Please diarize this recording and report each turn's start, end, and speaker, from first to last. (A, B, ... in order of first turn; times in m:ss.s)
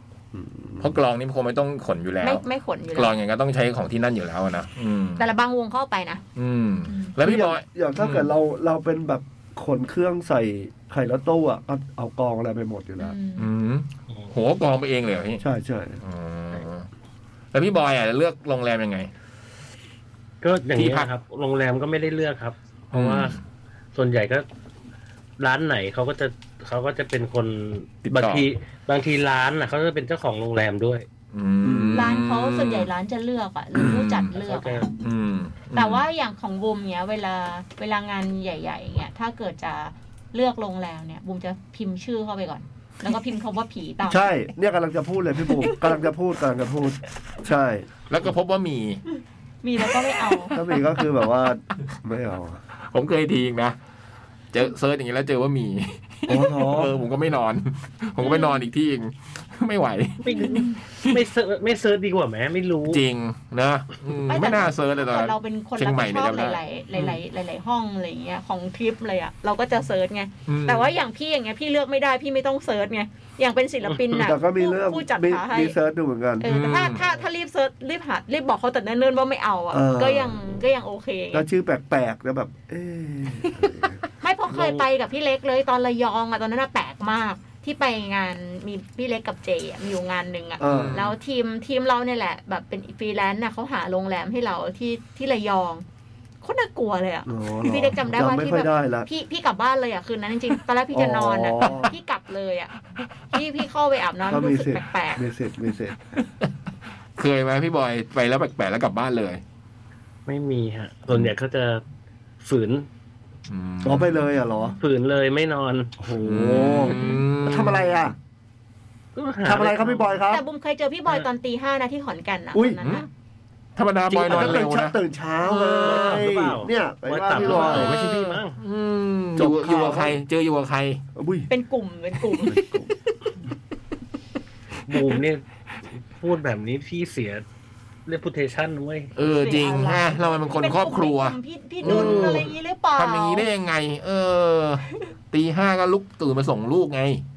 0:00.3-0:01.0 A
0:00.8-0:02.4 B
0:02.2-0:03.1 C
0:03.0-0:05.2 B
0:05.2-0:06.2 C
0:06.4-0:08.3 B
0:07.2-0:13.2 A
0:13.0-0:13.5 C
0:13.4-0:15.4 B
0:15.4-0:16.0 A
0:16.0-0:16.9 B
0:17.5-0:19.1 B
0:20.4-0:23.4 D
0:20.7-0:21.1 B
0:22.9-0:23.4 B
0:24.0-0:24.5 D
0:25.4-0:31.1 D
0:28.1-0:28.5 B
0:31.3-0:32.9 B
0:31.6-0:32.1 A
0:31.9-0:34.9 C
0:33.7-0:34.4 B
0:34.4-0:34.9 D
0:35.0-0:36.0 B
0:35.7-0:44.3 C
0:44.1-0:47.9 A
0:48.1-0:49.0 B
0:49.6-0:50.6 C
0:50.5-0:52.6 A
0:52.9-0:53.8 B
0:54.5-1:01.2 B
0:56.3-0:57.0 A
0:58.2-0:58.6 C
1:00.2-1:03.0 D
1:00.4-1:00.8 C
1:02.9-1:06.6 B
1:04.3-1:15.8 C
1:10.5-1:10.9 B
1:14.1-1:16.5 A
1:16.4-1:21.5 C
1:16.4-1:17.0 B
1:19.7-1:20.6 A
1:21.3-1:24.0 A
1:24.2-1:35.8 C
1:24.5-1:24.8 A
1:30.6-1:31.1 A
1:30.6-1:31.1 B
1:36.4-1:42.7 C
1:37.3-1:39.1 A
1:40.9-1:41.9 A
1:43.3-1:45.2 C
1:44.3-1:46.0 A
1:47.2-1:49.4 B
1:50.3-1:51.8 D
1:52.4-1:52.9 D
1:53.5-1:54.2 B
1:53.8-1:54.8 A
1:54.8-1:56.0 D
1:56.0-1:58.2 A
1:56.2-1:58.0 B
1:59.2-2:00.2 D
1:59.4-2:00.4 A
2:00.3-2:03.1 C
2:02.5-2:02.8 A
2:03.8-2:05.0 B
2:04.1-2:07.9 A
2:05.5-2:05.8 C
2:05.7-2:06.2 B
2:05.8-2:08.6 D
2:07.3-2:11.0 B
2:09.4-2:10.2 A
2:11.2-2:11.5 A
2:11.5-2:13.1 C
2:12.4-2:12.9 A
2:14.9-2:15.4 D
2:16.2-2:17.4 D
2:18.1-2:19.1 D
2:19.2-2:22.4 B
2:19.2-2:23.5 C
2:21.8-2:22.5 D
2:23.0-2:27.2 B